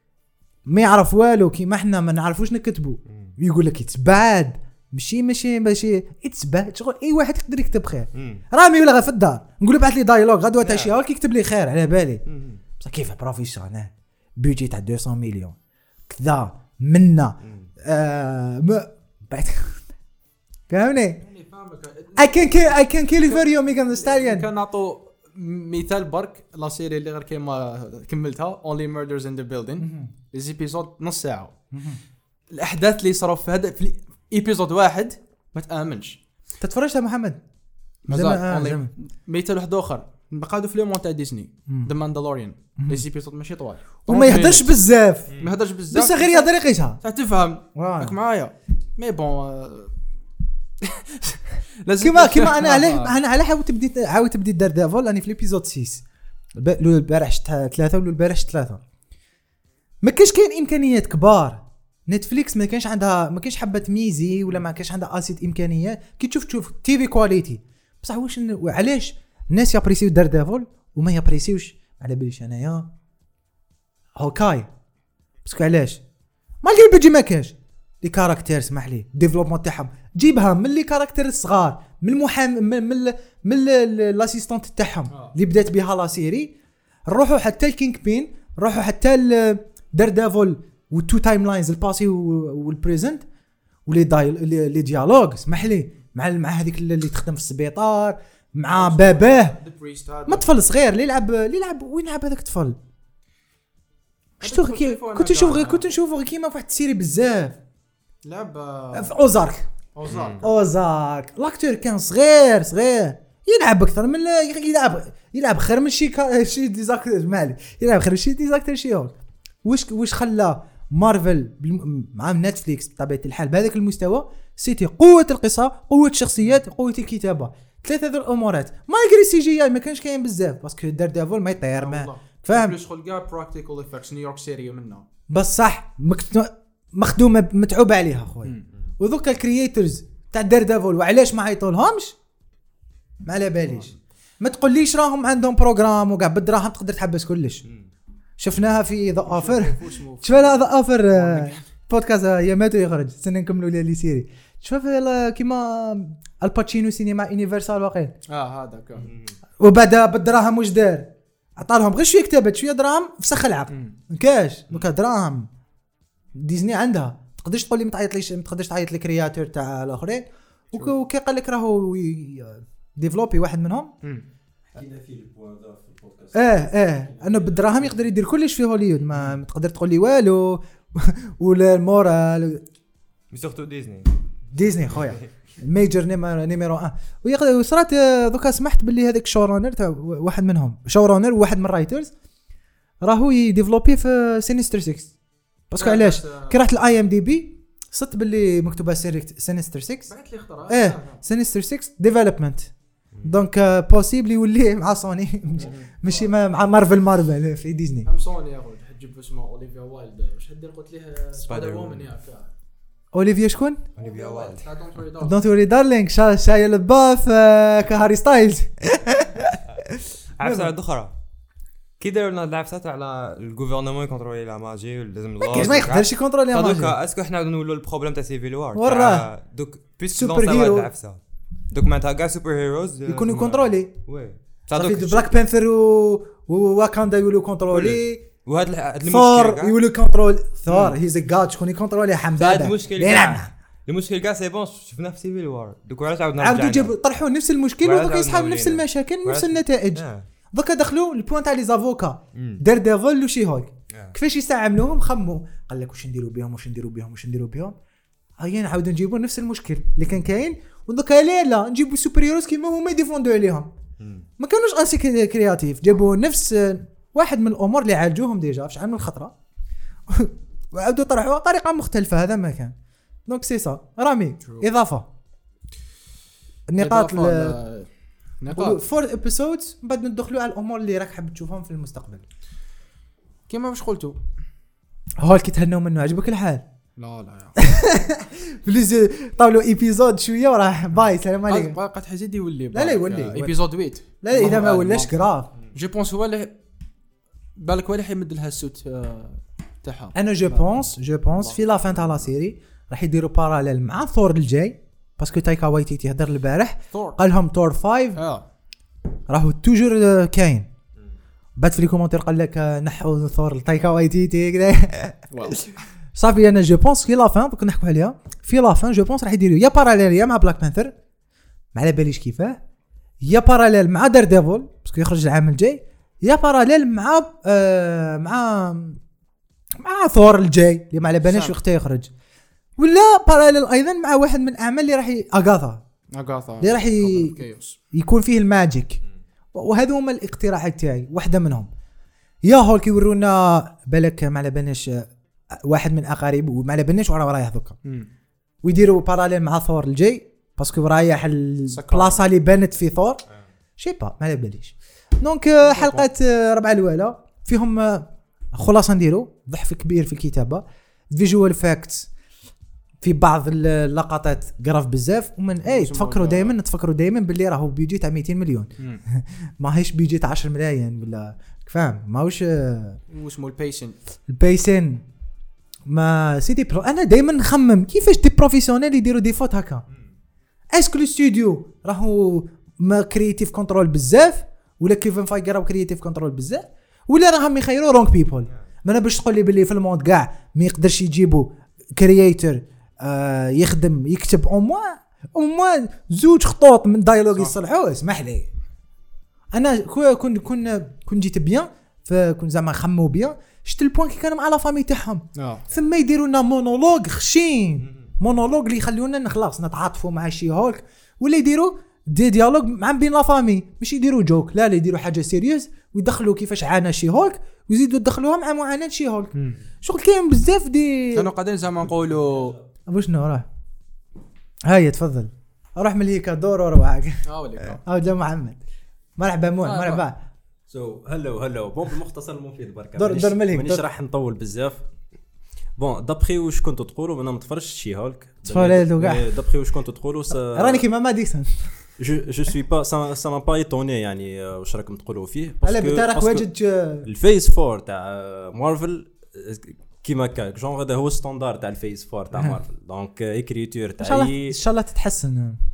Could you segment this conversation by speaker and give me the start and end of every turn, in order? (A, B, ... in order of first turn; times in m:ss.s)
0:00.7-0:12.2 A
0:03.1-0:03.3 B
0:08.1-0:08.4 B
0:10.6-0:10.9 B
0:12.3-0:12.6 B
0:12.8-0:15.6 A
0:16.1-0:19.8 A
0:17.4-0:17.7 B
0:20.7-0:21.2 A
0:21.2-0:31.5 C
0:22.2-0:24.5 A
0:29.8-0:30.1 A
0:31.7-0:32.0 A
0:32.5-0:36.2 C
0:36.6-0:37.4 A
0:38.1-0:44.8 C
0:38.1-0:38.9 A
0:42.8-0:43.0 A
0:44.1-0:45.3 A
0:45.4-0:46.5 C
0:45.9-0:47.0 A
0:47.0-0:49.9 C
0:47.7-0:48.2 A
0:50.8-0:53.2 C
0:52.0-0:56.0 A
0:56.6-0:58.8 A
1:00.0-1:12.9 A
1:14.1-1:14.7 A
1:15.4-1:16.0 A
1:16.6-1:26.5 A
1:25.1-1:25.3 C
1:27.1-1:33.2 A
1:33.8-1:39.6 A
1:38.7-1:40.5 C
1:40.3-1:42.8 A
1:44.4-1:47.6 A
1:44.4-1:45.9 C
1:48.2-1:49.1 C
1:48.9-1:49.7 A
1:49.9-1:50.5 C
1:50.1-1:50.4 B
1:50.4-2:12.8 A
2:11.7-2:15.1 C
2:15.3-2:22.1 A
2:23.2-2:27.6 A
2:28.4-2:38.1 A
2:29.2-2:31.6 C
2:38.3-2:39.1 C
2:39.0-2:39.3 B
2:39.6-2:45.5 A
2:43.7-2:44.0 C
2:46.3-2:53.9 A
2:54.7-2:57.9 D
2:56.3-3:02.6 A
3:03.3-3:04.1 B
3:04.5-3:12.1 A
3:04.9-3:05.3 B
3:13.0-3:15.1 A
3:15.7-3:20.1 A
3:15.8-3:16.6 C
3:20.1-3:21.2 C
3:20.7-3:22.7 A
3:23.1-3:23.4 B
3:23.2-3:28.1 A
3:25.6-3:26.3 C
3:28.0-3:32.5 C
3:31.4-3:32.0 B
3:33.1-3:33.9 A
3:34.0-3:34.6 B
3:34.0-3:35.4 C
3:35.2-3:40.7 A
3:40.4-3:41.1 B
3:42.0-3:55.3 B
3:45.4-3:46.9 A
3:48.7-3:49.3 A
3:50.1-3:50.9 A
3:53.1-3:53.9 A
3:54.7-3:58.2 A
3:57.7-3:59.8 B
3:59.0-4:03.5 A
4:00.7-4:01.0 B
4:02.4-4:06.9 B
4:06.4-4:17.7 A
4:07.8-4:10.2 B
4:12.3-4:12.6 B
4:18.4-4:23.7 A
4:24.0-4:24.2 B
4:24.4-4:29.3 A
4:30.1-4:32.7 A
4:33.3-4:35.1 A
4:36.7-4:37.6 A
4:36.8-4:38.8 C
4:38.5-4:42.2 A
4:43.5-4:44.2 C
4:45.2-4:46.6 A
4:47.0-4:47.6 C
4:47.6-4:51.8 A
4:51.5-4:55.2 C
4:52.7-4:53.6 A
4:54.2-4:55.5 A
4:55.7-4:56.5 C
4:57.6-5:00.6 C
5:00.1-5:08.2 A
5:06.9-5:07.2 C
5:08.2-5:08.4 C
5:09.3-5:10.7 A
5:11.6-5:20.9 A
5:15.3-5:15.6 C
5:21.7-5:22.6 A
5:23.2-5:29.0 A
5:29.8-5:32.1 A
5:31.2-5:31.5 C
5:32.8-5:35.8 A
5:36.1-5:37.8 C
5:36.6-5:37.4 A
5:37.9-5:39.0 A
5:39.5-5:41.7 A
5:42.4-5:47.8 A
5:48.6-5:53.2 A
5:51.7-5:52.2 C
5:53.8-6:02.1 A
5:55.7-5:56.1 C
6:03.0-6:13.0 A
6:05.6-6:06.6 C
6:13.1-6:14.0 C
6:14.3-6:15.0 A
6:15.9-6:19.8 A
6:20.7-6:38.5 A
6:39.5-7:01.3 A
6:45.3-6:45.6 C
7:01.1-7:02.6 C
7:02.9-7:03.4 A
7:04.6-7:08.6 A
7:07.2-7:07.8 C
7:09.2-7:10.2 A
7:09.6-7:10.0 C
7:10.7-7:14.8 D
7:13.0-7:13.8 A
7:15.8-7:20.8 D
7:18.4-7:19.3 A
7:20.3-7:21.7 A
7:22.0-7:26.5 D
7:25.6-7:27.1 A
7:27.0-7:34.6 D
7:32.3-7:32.6 A
7:34.0-7:35.6 A